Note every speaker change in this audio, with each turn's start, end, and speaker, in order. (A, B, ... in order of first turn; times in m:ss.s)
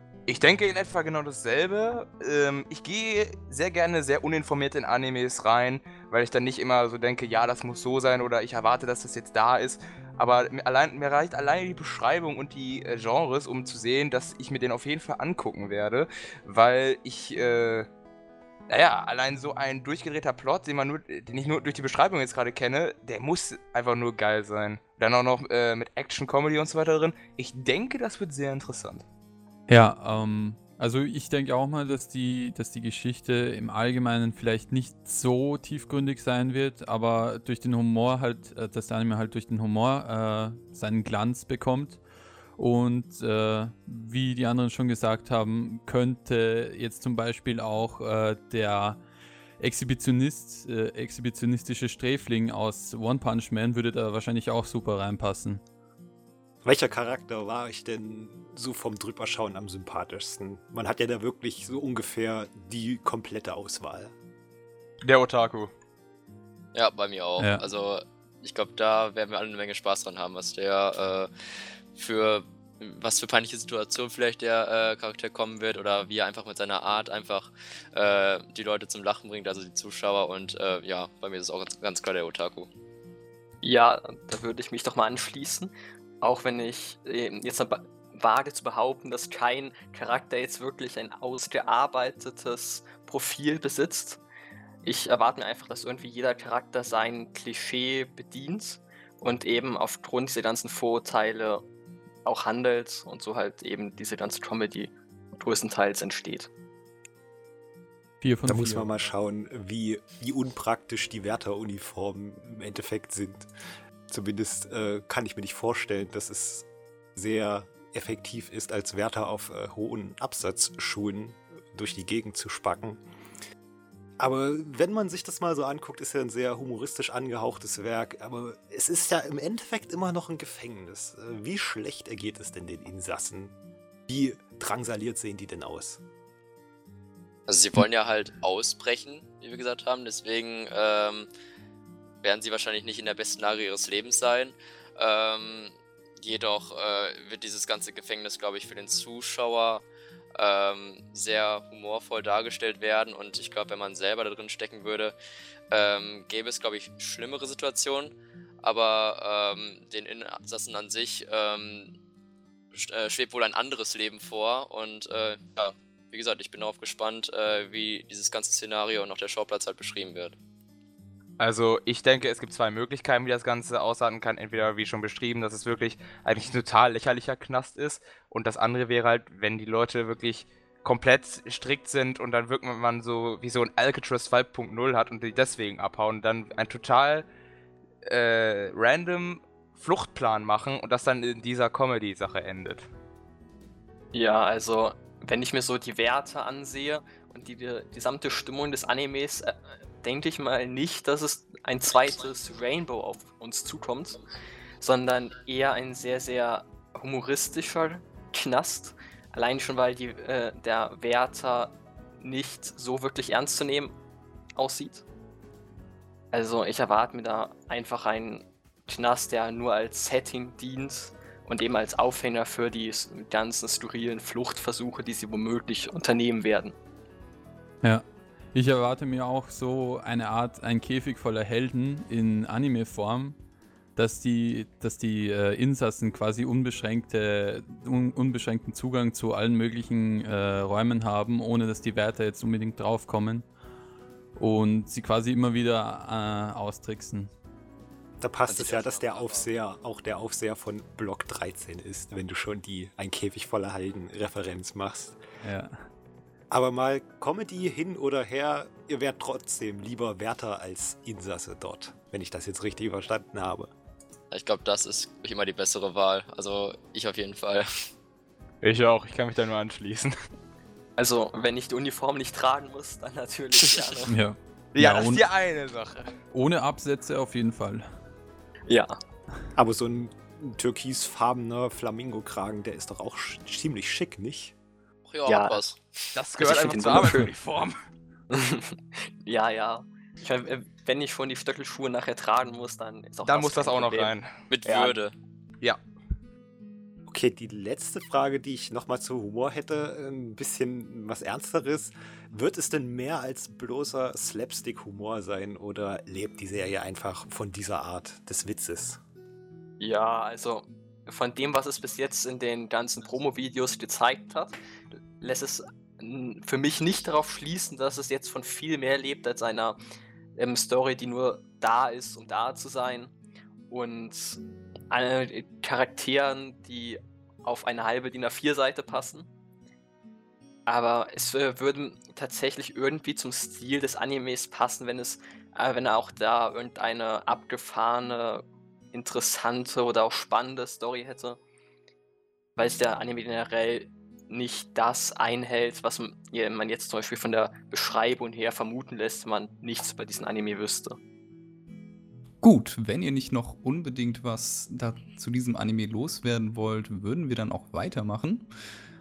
0:00.3-0:17.9 A
0:18.7-0:29.0 A
0:29.7-0:42.0 B
0:42.6-0:49.0 B
0:49.6-0:55.6 B
0:56.6-1:04.1 C
1:05.0-1:05.7 A
1:06.7-1:11.3 D
1:12.0-1:22.7 D
1:23.6-1:34.2 E
1:34.8-1:41.7 E
1:42.2-1:46.5 E
1:48.2-1:48.9 B
1:48.5-1:53.5 C
1:54.1-2:03.0 C
2:04.2-2:13.5 C
2:14.1-2:16.0 C
2:17.5-2:21.3 D
2:22.2-2:29.8 D
2:30.4-2:35.1 D
2:35.7-2:42.0 D
2:42.7-2:50.4 D
2:51.4-3:07.3 A
3:08.0-3:12.9 A
3:14.1-3:24.2 E
3:24.8-3:34.0 E
3:34.6-3:35.0 E
3:36.3-3:46.8 E
3:47.8-3:53.4 B
3:54.0-4:03.5 B
4:04.4-4:07.3 B
4:08.2-4:15.2 C
4:08.5-4:09.5 D
4:15.4-4:15.7 B
4:16.5-4:23.7 C
4:24.3-4:27.7 D
4:28.6-4:30.1 A
4:31.0-4:34.1 E
4:34.1-4:35.2 B
4:34.7-4:36.1 A
4:36.3-4:37.8 B
4:38.7-4:39.0 E
4:39.6-4:44.6 C
4:45.1-4:45.8 D
4:45.3-4:47.3 E
4:46.2-4:47.8 A
4:48.3-4:54.1 E
4:53.3-4:54.3 A
4:54.5-4:55.1 D
4:54.6-4:54.9 E
4:57.1-5:09.0 C
5:09.8-5:14.6 E
5:15.2-5:19.8 E
5:20.4-5:23.1 E
5:23.7-5:24.4 E
5:24.9-5:29.3 E
5:30.7-5:41.4 E
5:42.6-5:51.0 E
5:52.4-5:58.5 F